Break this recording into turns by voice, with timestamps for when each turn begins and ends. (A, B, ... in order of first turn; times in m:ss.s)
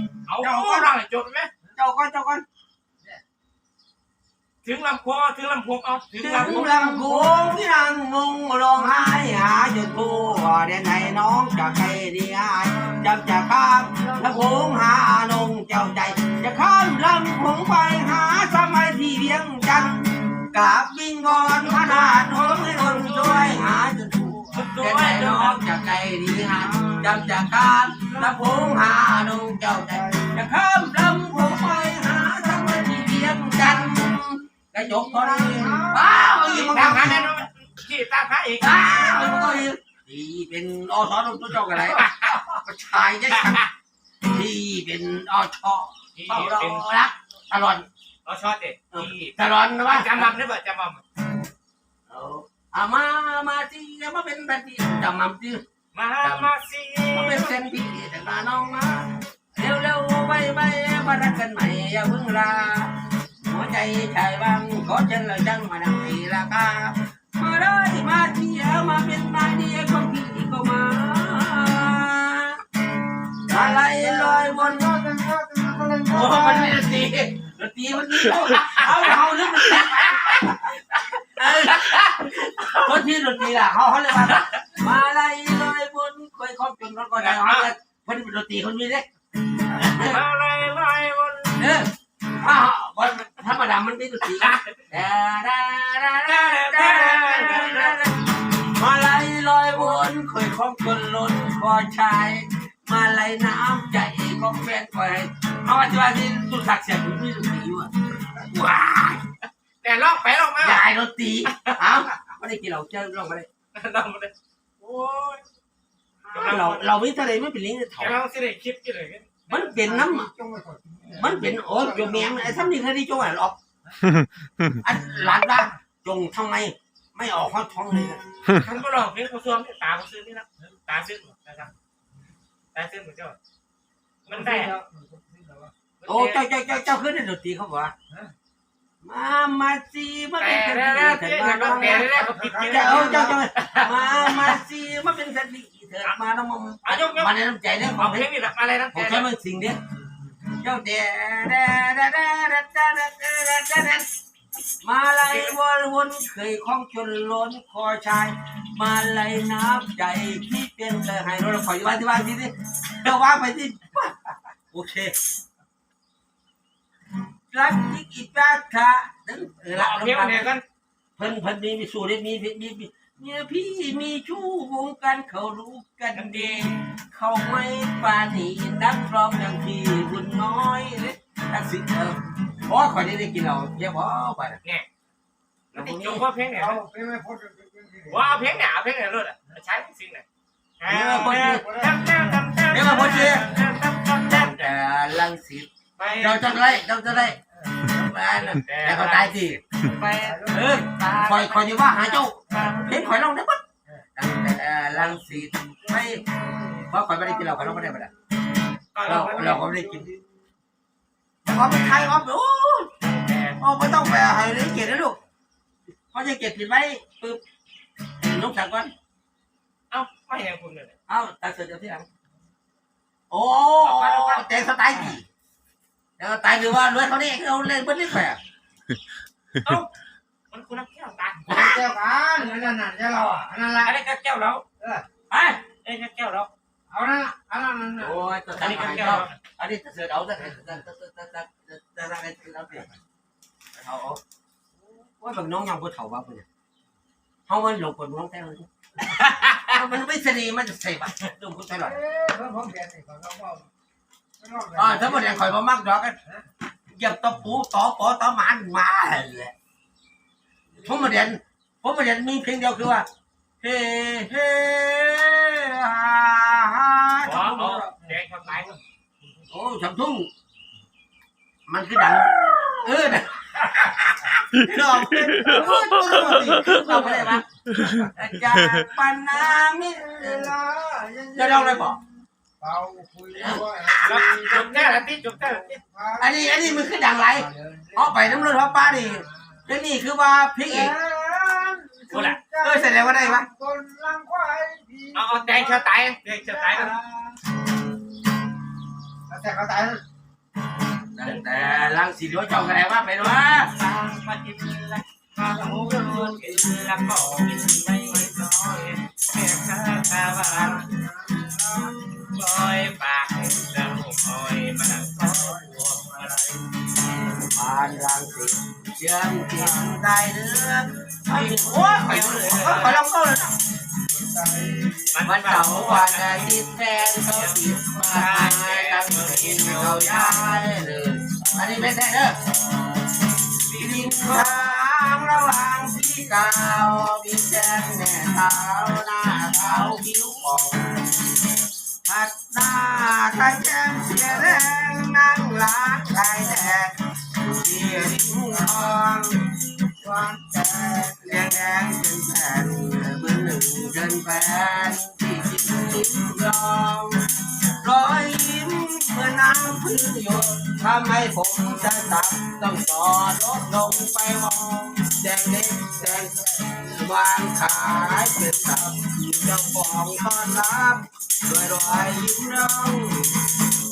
0:00.3-0:01.5 A
0:00.4-0:00.9 B
0:01.7-0:02.4 B
0:04.6-0:06.8 A
0:06.2-0:37.3 B
0:06.7-0:07.4 C
0:21.4-0:23.6 A
0:24.5-0:25.6 A
0:29.9-0:30.3 C
0:34.8-0:36.4 C
0:36.4-0:39.6 A
0:38.6-0:43.7 B
0:41.8-0:42.4 A
0:43.3-0:43.7 A
0:44.2-0:47.8 B
0:46.2-0:46.8 A
0:48.2-0:51.0 A
0:48.9-0:50.3 B
0:52.1-0:55.6 B
0:55.9-0:57.6 A
0:56.2-0:56.5 B
0:57.1-1:12.6 B
1:13.4-1:15.0 B
1:13.5-1:16.9 C
1:16.1-1:30.2 B
1:18.7-1:20.4 A
1:21.7-1:23.0 A
1:24.2-1:24.4 A
1:27.2-1:27.7 A
1:29.9-1:31.8 A
1:31.6-1:49.2 B
1:34.4-1:34.8 A
1:36.2-1:38.1 A
1:49.8-1:50.9 A
1:50.6-1:53.5 B
1:51.4-1:52.1 A
1:53.7-1:55.4 A
1:56.3-1:56.9 A
1:56.3-1:58.2 B
1:58.0-1:59.7 A
1:59.5-2:00.3 B
1:59.6-2:02.7 C
2:01.1-2:03.6 B
2:04.7-2:08.2 B
2:08.5-2:11.7 A
2:12.7-2:13.4 A
2:14.3-2:14.7 A
2:14.3-2:15.7 C
2:16.0-2:16.4 A
2:16.1-2:17.9 B
2:19.0-2:28.3 B
2:20.4-2:24.6 A
2:21.6-2:23.4 C
2:26.8-2:27.3 A
2:27.9-2:29.3 A
2:28.9-2:29.8 B
2:30.5-2:34.1 B
2:34.8-2:44.2 B
2:35.2-2:35.6 A
2:44.7-2:45.1 B
2:47.5-2:50.6 B
2:49.7-2:50.6 A
2:51.2-3:04.6 B
2:56.2-2:56.7 A
3:05.7-3:06.8 A
3:05.8-3:06.2 B
3:06.5-3:08.4 C
3:08.1-3:10.2 A
3:10.8-3:14.7 A
3:10.9-3:11.7 B
3:11.5-3:12.2 C
3:12.7-3:13.5 B
3:14.3-3:19.6 B
3:16.0-3:16.8 A
3:18.4-3:23.2 A
3:20.0-3:20.8 C
3:20.5-3:23.6 B
3:24.2-3:26.3 B
3:25.9-3:28.1 C
3:26.9-3:28.1 B
3:29.0-3:29.6 A
3:29.0-3:30.1 B
3:29.4-3:30.4 C
3:31.4-3:32.9 B
3:33.0-3:33.6 A
3:33.6-3:35.2 B
3:36.1-3:37.4 B
3:38.2-3:38.9 B
3:39.9-3:40.9 A
3:41.1-3:42.1 B
3:43.3-3:45.3 B
3:43.8-3:44.5 A
3:46.2-3:48.4 B
3:49.6-3:49.9 A
3:50.5-3:51.8 A
3:51.5-3:53.9 C
3:52.4-3:52.8 A
3:53.8-3:54.6 A
3:54.8-3:55.1 C
3:55.3-3:55.6 B
3:55.8-3:56.5 A
3:56.9-3:58.2 C
3:58.0-4:02.9 B
3:58.6-3:59.4 A
4:03.8-4:04.2 B
4:05.2-4:06.5 B
4:07.5-4:08.7 B
4:09.2-4:09.6 A
4:09.4-4:12.0 B
4:11.8-4:13.7 C
4:14.4-4:15.4 C
4:14.8-4:16.2 B
4:16.9-4:19.5 B
4:20.8-4:23.1 B
4:23.6-4:27.9 B
4:27.2-4:28.8 A
4:29.5-4:30.3 B
4:31.7-4:40.6 B
4:36.9-4:37.2 A
4:39.3-4:42.0 C
4:41.3-4:42.0 B
4:42.6-4:49.2 C
4:43.4-4:44.6 B
4:44.0-4:45.8 A
4:46.2-4:51.0 B
4:50.7-4:57.4 C
4:52.1-4:52.4 A
4:52.1-4:53.5 B
4:55.1-4:57.0 A
4:59.3-5:00.0 C
5:01.1-5:03.7 B
5:01.2-5:02.0 A
5:03.2-5:10.8 A
5:05.6-5:06.5 C
5:05.9-5:06.6 B
5:10.5-5:12.0 C
5:12.2-5:16.7 A
5:15.3-5:16.0 C
5:17.3-5:23.6 B
5:21.3-5:23.0 A
5:24.1-5:25.1 C
5:25.1-5:30.6 A
5:25.2-5:32.6 B
5:33.7-5:34.8 A
5:33.7-5:41.1 B
5:42.0-5:49.5 B
5:50.0-5:51.5 C
5:50.9-5:57.3 B
5:57.8-6:13.4 B